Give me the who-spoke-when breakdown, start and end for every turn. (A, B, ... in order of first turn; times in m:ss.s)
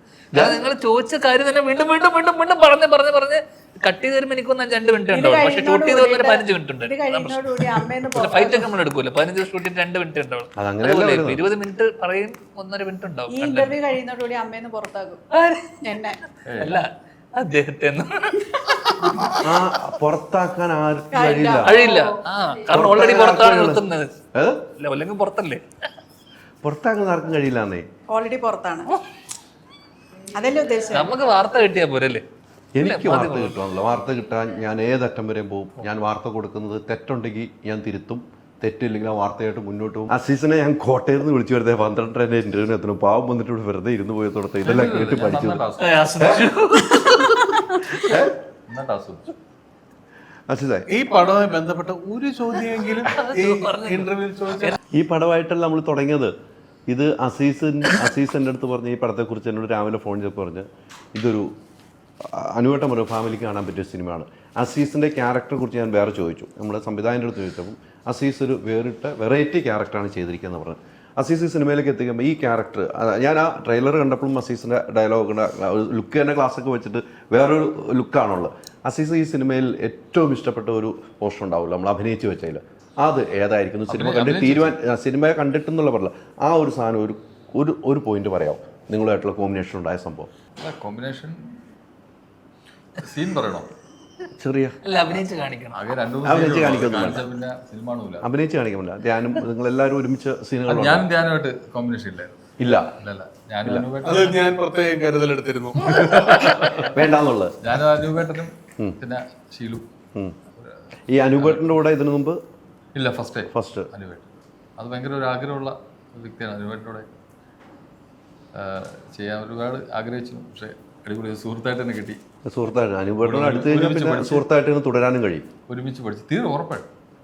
0:00.3-0:00.6 A
0:00.3-0:13.8 B
0:05.1-0:08.7 C
0:10.6-0:11.4 A
0:13.3-0:15.2 C
0:15.3-0:15.7 B
0:15.8-0:16.2 C
0:16.4-0:16.8 D
0:16.6-0:19.4 B
0:19.0-0:19.4 C
0:19.4-0:21.8 A
0:21.1-0:22.2 C
0:21.6-0:24.1 B
0:22.7-0:24.6 A
0:24.8-0:25.6 B
0:26.6-0:27.8 A
0:28.1-0:28.9 C
0:30.3-0:31.1 C
0:30.9-0:32.2 B
0:32.8-0:45.6 A
0:32.8-0:33.6 B
0:44.6-0:46.2 D
0:45.8-0:48.2 B
0:46.2-0:46.5 A
0:48.0-0:48.3 A
0:48.7-0:49.3 D
0:50.5-0:50.9 A
0:50.9-0:54.8 E
0:53.1-0:54.8 B
0:54.9-0:56.3 A
0:56.9-1:01.5 A
1:02.2-1:30.3 A
1:23.9-1:24.7 D
1:30.6-1:31.5 D
1:33.0-1:33.7 D
1:34.4-1:35.2 A
1:34.8-1:35.8 B
1:35.7-1:38.2 D
1:36.2-1:37.2 A
1:38.2-1:41.1 A
1:40.6-1:42.4 D
1:42.6-1:42.9 A
1:43.0-1:44.4 D
1:44.0-1:46.8 E
1:46.8-1:47.7 A
1:47.6-1:49.8 D
1:50.5-1:50.8 D
1:51.1-1:52.4 A
1:51.4-1:51.7 D
1:52.9-1:57.1 D
1:53.5-1:53.9 A
1:58.5-2:02.2 D
2:02.4-2:05.5 A
2:03.2-2:04.4 D
2:05.7-2:06.9 D